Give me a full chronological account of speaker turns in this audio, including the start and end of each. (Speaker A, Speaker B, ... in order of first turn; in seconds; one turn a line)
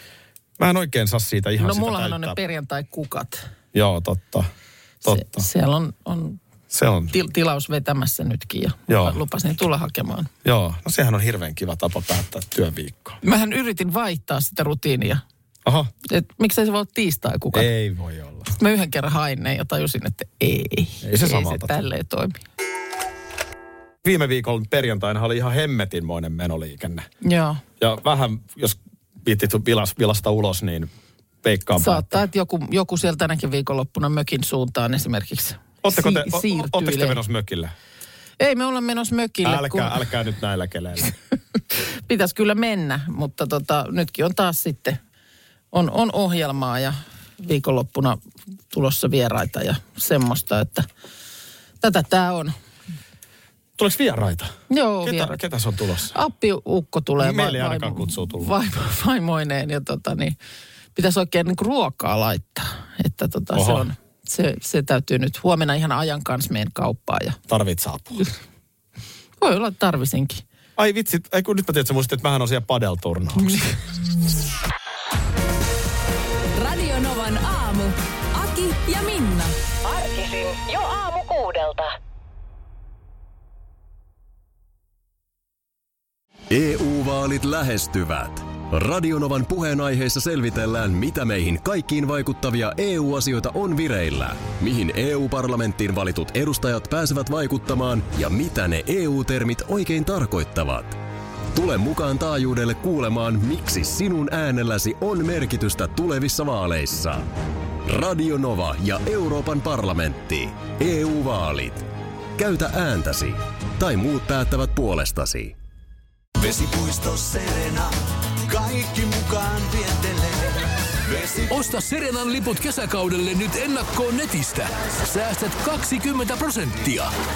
Speaker A: 0.6-2.4
Speaker B: 1.6-3.4
Speaker A: 3.7-4.5
Speaker A: 5.0-5.5
Speaker B: 5.0-6.4
Speaker A: 6.7-7.1
Speaker B: 7.1-10.3
Speaker A: 8.9-9.2
Speaker A: 10.4-13.2
Speaker B: 13.2-15.2
Speaker A: 15.6-15.9
Speaker B: 16.1-17.7
Speaker A: 17.5-18.5
Speaker B: 18.6-22.4
Speaker A: 21.0-21.8
Speaker A: 24.0-27.1
Speaker B: 27.2-27.6
Speaker A: 27.8-30.9
Speaker A: 31.4-32.2
Speaker B: 31.8-37.2
Speaker A: 35.8-37.7
Speaker B: 38.4-40.0
Speaker A: 39.4-41.1
Speaker B: 42.0-45.0
Speaker B: 45.7-48.2
Speaker B: 48.7-50.9
Speaker B: 51.8-52.5
Speaker A: 53.8-56.1
Speaker B: 54.7-55.4
Speaker B: 56.1-60.4
Speaker A: 57.2-58.5
Speaker B: 60.9-67.4
Speaker A: 63.5-63.9
Speaker A: 67.5-68.2
Speaker B: 69.4-70.4
Speaker A: 70.8-73.7
Speaker C: 76.5-79.5
Speaker D: 79.9-81.9
Speaker E: 86.5-101.0
Speaker E: 101.5-107.3
Speaker E: 107.8-111.8
Speaker E: 112.4-115.5
Speaker F: 116.4-121.6
Speaker G: 121.5-127.1